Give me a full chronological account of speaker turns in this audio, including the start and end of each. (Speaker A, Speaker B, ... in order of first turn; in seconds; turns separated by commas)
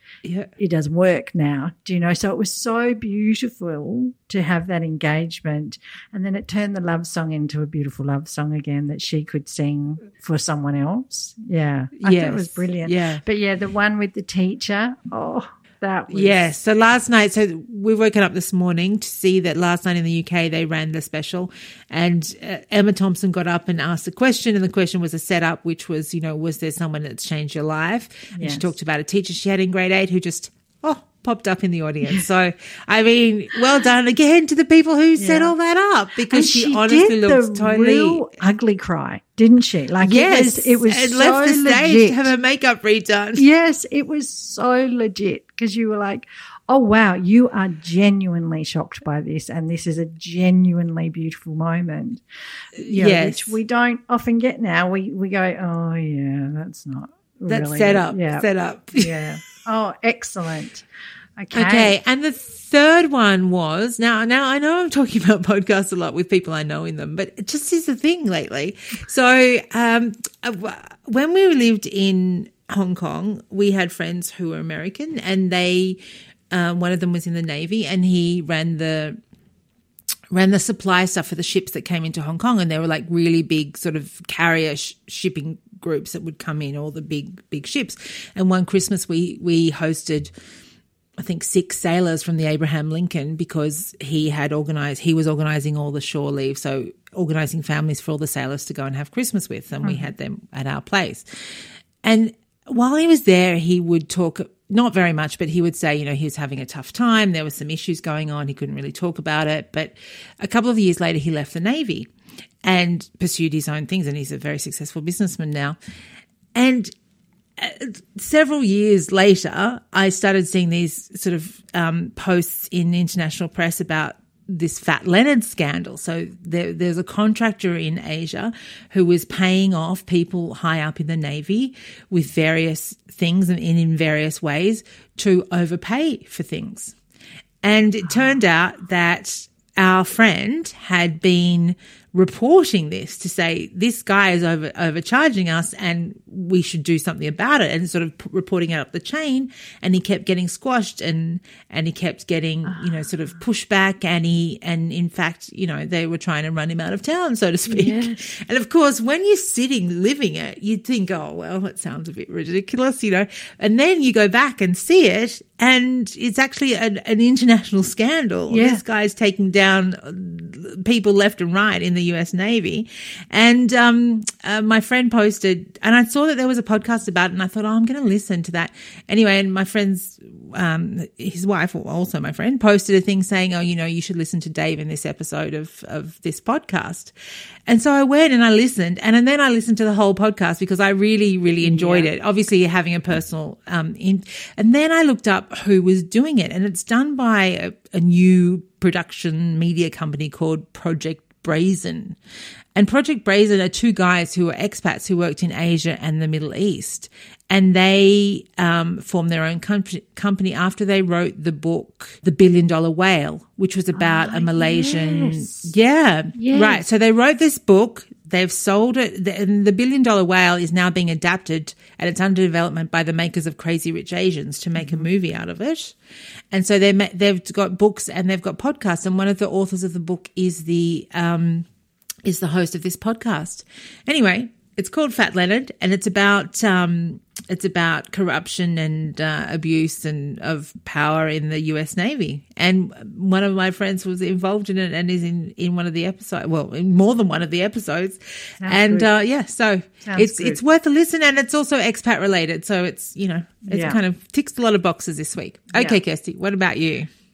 Speaker A: 0.2-0.5, Speaker B: 0.6-16.5, Speaker A: 12.0-13.2, Speaker A: 16.1-38.3, Speaker B: 28.3-28.7, Speaker B: 35.2-35.5, Speaker B: 36.3-42.3, Speaker A: 40.0-43.4, Speaker B: 43.4-52.2, Speaker B: 52.7-60.9, Speaker A: 52.8-53.6, Speaker A: 57.5-59.2, Speaker B: 61.4-62.0, Speaker A: 61.5-76.0, Speaker A: 76.5-79.2, Speaker A: 80.3-90.3, Speaker A: 91.2-112.1, Speaker B: 99.8-100.1, Speaker A: 112.6-115.8, Speaker A: 116.5-116.9, Speaker A: 117.6-137.0, Speaker A: 137.6-187.1, Speaker B: 152.7-153.1, Speaker B: 157.7-158.3, Speaker B: 168.5-168.8, Speaker A: 187.7-202.2, Speaker B: 191.6-192.1, Speaker A: 202.8-226.0, Speaker B: 214.0-215.7, Speaker B: 216.3-216.8, Speaker B: 224.8-225.1, Speaker A: 226.5-231.7, Speaker A: 232.2-257.1, Speaker B: 248.6-249.1, Speaker B: 250.1-250.6, Speaker B: 253.7-254.0